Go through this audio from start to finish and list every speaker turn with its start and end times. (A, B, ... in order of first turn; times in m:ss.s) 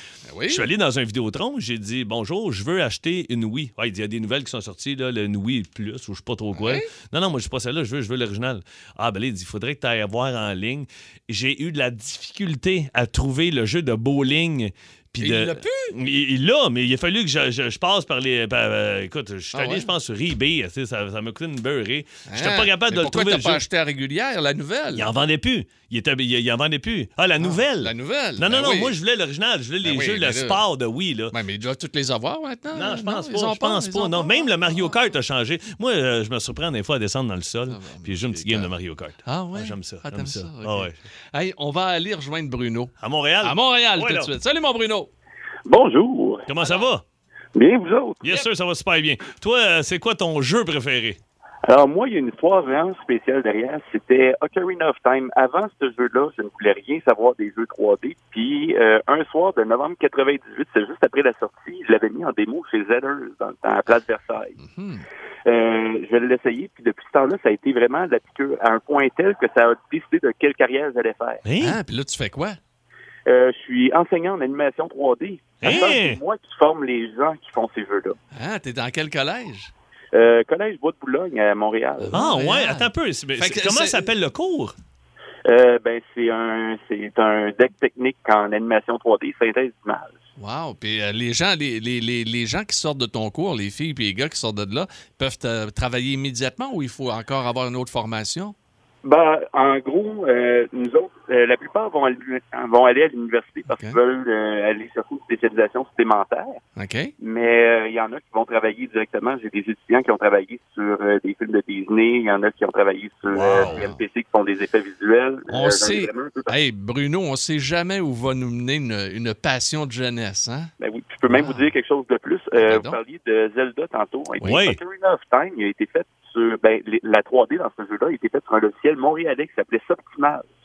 0:00.3-0:00.6 A
0:00.5-0:23.6 B
0:06.5-0:06.9 A
0:15.2-0:16.0 A
0:19.5-0:19.9 A
0:22.3-0:25.1 A
0:24.9-0:31.3 B
0:27.4-0:29.0 A
0:29.8-0:30.6 A
0:31.3-0:34.9 A
0:32.7-0:40.9 B
0:37.7-0:38.7 A
0:39.2-0:45.1 A
0:43.0-0:44.3 B
0:45.6-0:46.4 C
0:46.5-0:47.0 B
0:46.6-0:46.8 A
0:47.5-0:48.2 C
0:48.2-0:51.2 B
0:51.6-1:04.6 C
1:04.6-1:05.0 A
1:05.4-1:11.4 C
1:11.4-1:11.8 B
1:11.6-1:12.6 A
1:13.3-1:18.2 C
1:15.6-1:16.2 B
1:18.3-1:19.7 A
1:20.1-1:22.2 C
1:22.0-1:24.1 A
1:22.1-1:24.7 B
1:25.4-1:30.2 C
1:30.4-1:38.5 A
1:39.0-1:46.6 C
1:43.7-1:44.0 A
1:46.8-1:47.1 A
1:47.2-1:56.5 C
1:53.3-1:53.8 B
1:53.3-1:54.0 A
1:55.5-2:00.7 A
2:00.8-2:10.5 C
2:01.3-2:01.7 A
2:02.6-2:03.0 A
2:04.4-2:04.6 A
2:04.4-2:04.8 B